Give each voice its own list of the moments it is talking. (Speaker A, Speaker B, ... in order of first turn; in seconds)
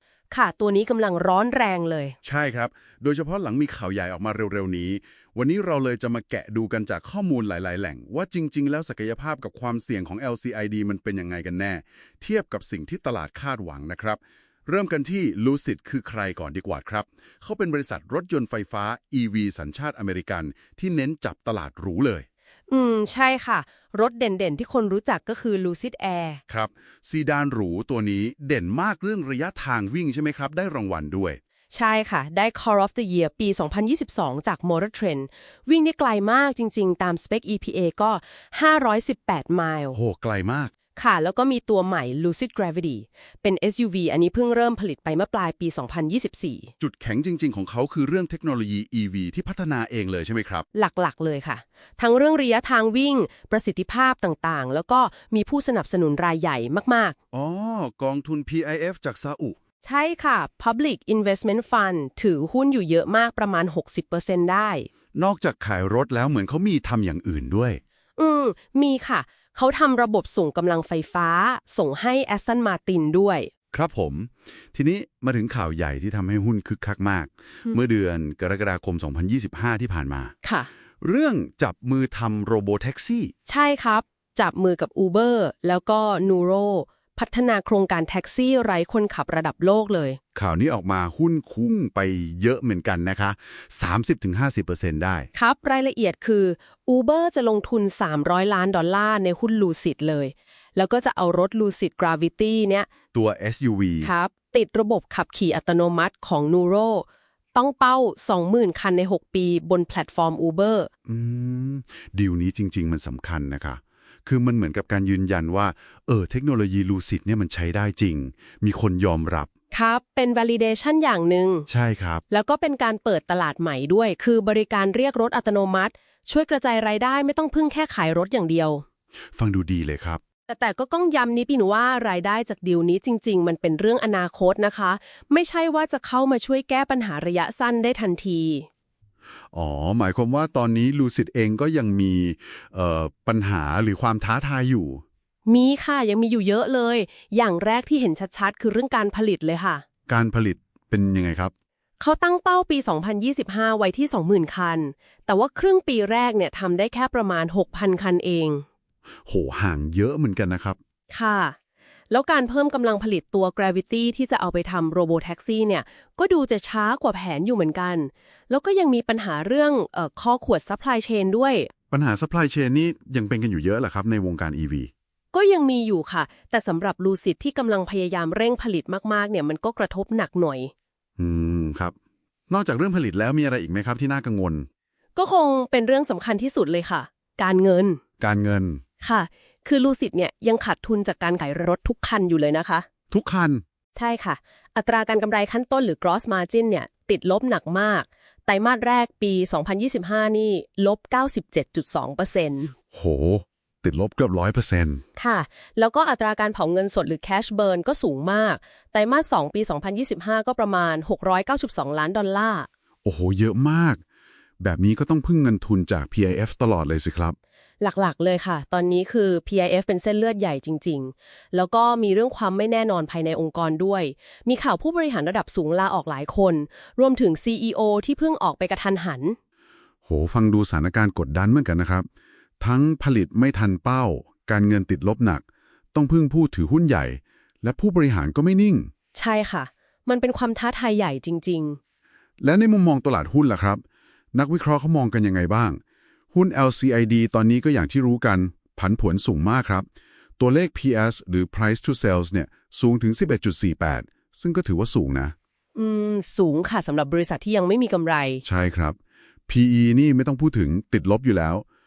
Speaker A: 0.3-2.2, 22.7-26.4, 31.7-40.0, 41.0-46.7, 50.7-57.2, 59.8-64.9, 68.2-73.5, 80.4-80.7, 83.5-90.2, 95.3-102.9, 104.0-110.9, 119.7-121.7, 122.3-128.8, 130.5-138.7, 145.5-149.8, 152.0-158.7, 161.1-161.6, 162.1-171.7, 175.3-180.7, 185.2-188.0, 189.0-192.9, 194.0-202.7, 205.2-212.7, 217.8-229.4, 239.1-241.8, 255.8-258.4
Speaker B: 2.2-22.3, 26.5-31.4, 39.9-40.7, 46.8-50.7, 57.3-59.6, 65.2-67.8, 73.7-80.3, 81.0-83.3, 90.3-95.3, 103.1-104.1, 111.1-119.5, 121.7-122.2, 129.4-130.2, 139.5-145.0, 150.1-151.5, 159.3-160.8, 171.9-174.9, 181.2-181.9, 182.5-184.7, 188.2-188.8, 193.1-193.6, 202.9-205.0, 213.1-214.0, 214.6-217.4, 230.1-232.1, 232.6-238.9, 242.4-243.8, 244.3-245.8, 246.3-249.8, 250.4-255.3, 258.4-259.0, 259.5-261.6